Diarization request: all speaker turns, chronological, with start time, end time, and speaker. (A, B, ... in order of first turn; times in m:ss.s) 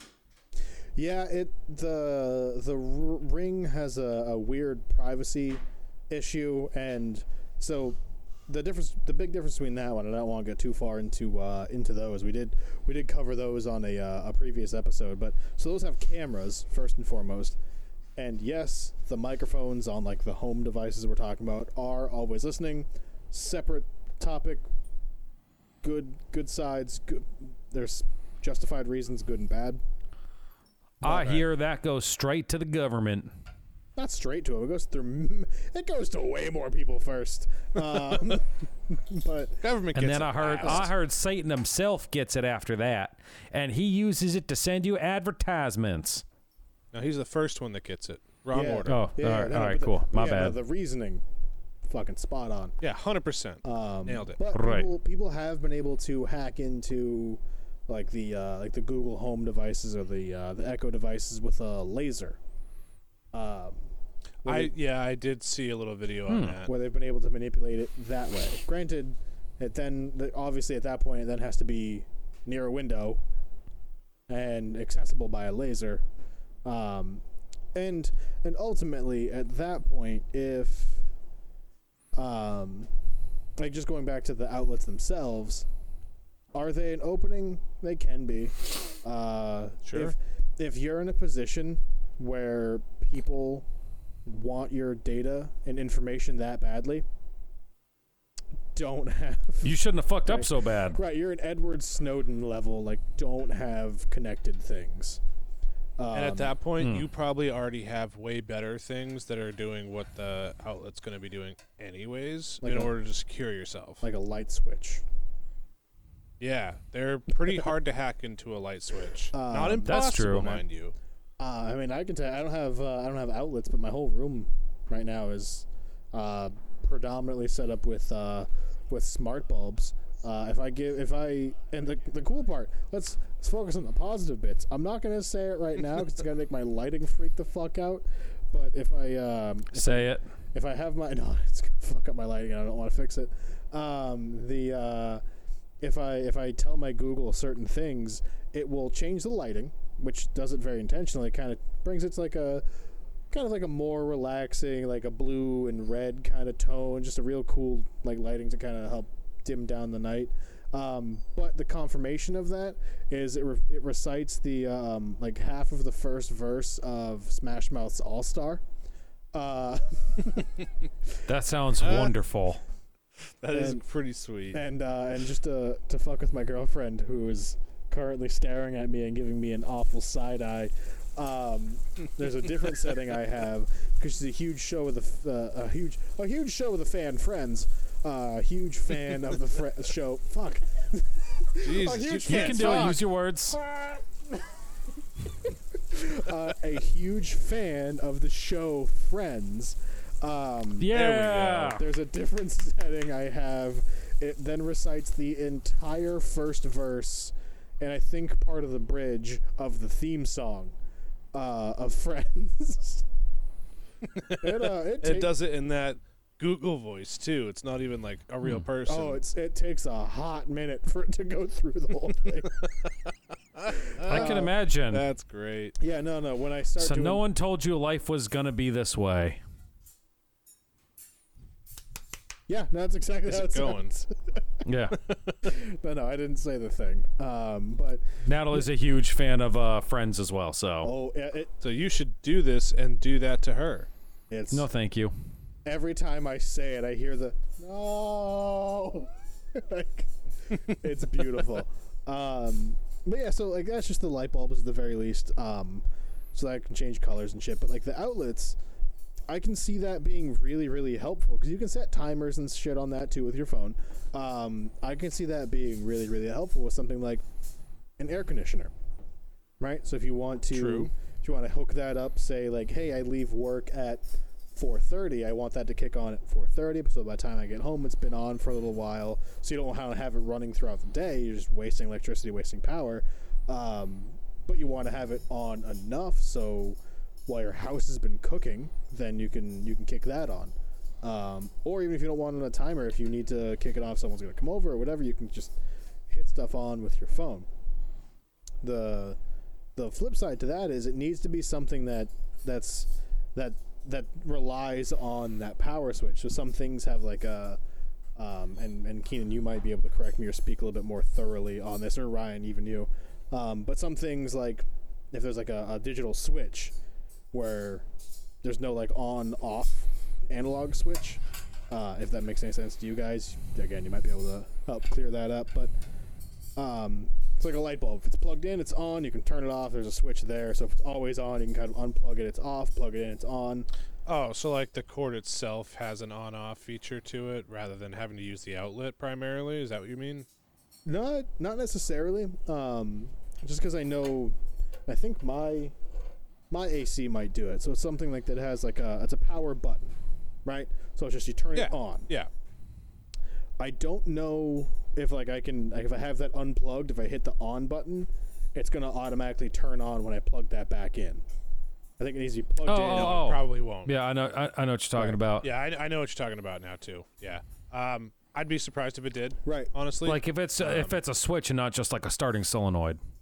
0:01.0-0:17.6 A
0:18.2-0:24.6 A
0:25.8-0:29.8 A
0:31.0-0:33.3 B
0:31.1-0:31.4 A
0:34.0-0:39.6 A
0:39.6-0:40.9 C
0:39.9-0:46.2 B
0:40.6-0:40.9 A
0:46.9-0:49.0 C
0:48.5-0:51.2 A
0:48.8-0:50.6 B
0:51.9-0:52.8 A
0:52.8-0:54.4 C
0:53.6-1:02.4 A
0:54.5-0:54.9 B
1:03.3-1:03.9 A
1:04.4-1:04.7 A
1:04.4-1:06.7 C
1:06.3-1:06.6 B
1:06.6-1:13.2 A
1:14.3-1:16.0 A
1:16.6-1:21.0 A
1:22.2-1:22.9 A
1:23.6-1:25.7 A
1:26.5-1:33.6 A
1:29.8-1:30.1 C
1:34.2-1:37.0 A
1:38.7-1:45.2 A
1:39.6-1:41.0 B
1:46.0-1:46.5 A
1:46.1-1:54.0 C
1:46.8-1:47.0 B
1:52.6-1:52.9 A
1:54.0-1:55.0 A
1:56.4-2:00.9 C
1:59.3-1:59.9 A
1:59.8-2:00.6 B
2:01.4-2:25.2 A
2:19.7-2:20.2 B
2:25.8-2:32.6 A
2:33.3-2:48.6 A
2:49.3-2:50.6 A
2:51.2-2:52.6 B
2:51.8-2:52.2 C
2:53.4-2:54.6 C
2:53.5-2:53.8 A
2:54.5-3:14.6 A
3:11.6-3:13.0 C
3:12.2-3:13.6 B
3:15.2-3:30.8 A
3:20.8-3:21.8 B
3:20.9-3:21.7 C
3:31.3-3:33.0 A
3:34.1-3:39.2 C
3:34.4-3:35.3 A
3:38.8-3:42.6 A
3:43.6-3:45.8 C
3:44.0-3:44.5 A
3:44.0-3:45.0 B
3:45.8-3:47.2 A
3:46.8-3:49.4 B
3:52.5-3:54.4 A
3:53.2-3:53.9 C
3:54.6-3:55.0 B
3:55.0-3:55.4 C
3:55.4-3:58.0 A
3:58.2-4:00.9 B
4:00.8-4:01.5 A
4:01.6-4:03.9 C
4:04.3-4:04.7 A
4:04.5-4:05.1 B
4:05.6-4:18.6 A
4:19.3-4:27.2 A
4:28.0-4:28.7 A
4:29.6-4:55.6 A
4:30.5-4:30.9 C
4:56.1-4:57.5 A
4:58.6-4:59.2 A
4:59.8-5:07.6 A
5:08.2-5:16.8 A
5:17.3-5:17.9 A
5:18.4-5:25.7 A
5:26.6-5:33.7 A
5:34.0-5:40.3 C
5:40.8-5:44.4 A
5:44.9-5:45.7 A
5:46.5-5:52.1 A
5:51.6-5:52.3 C
5:53.6-6:01.2 A
6:02.0-6:03.3 A
6:02.6-6:05.5 B
6:02.8-6:03.9 C
6:05.4-6:11.0 C
6:09.4-6:09.7 A
6:10.0-6:13.0 B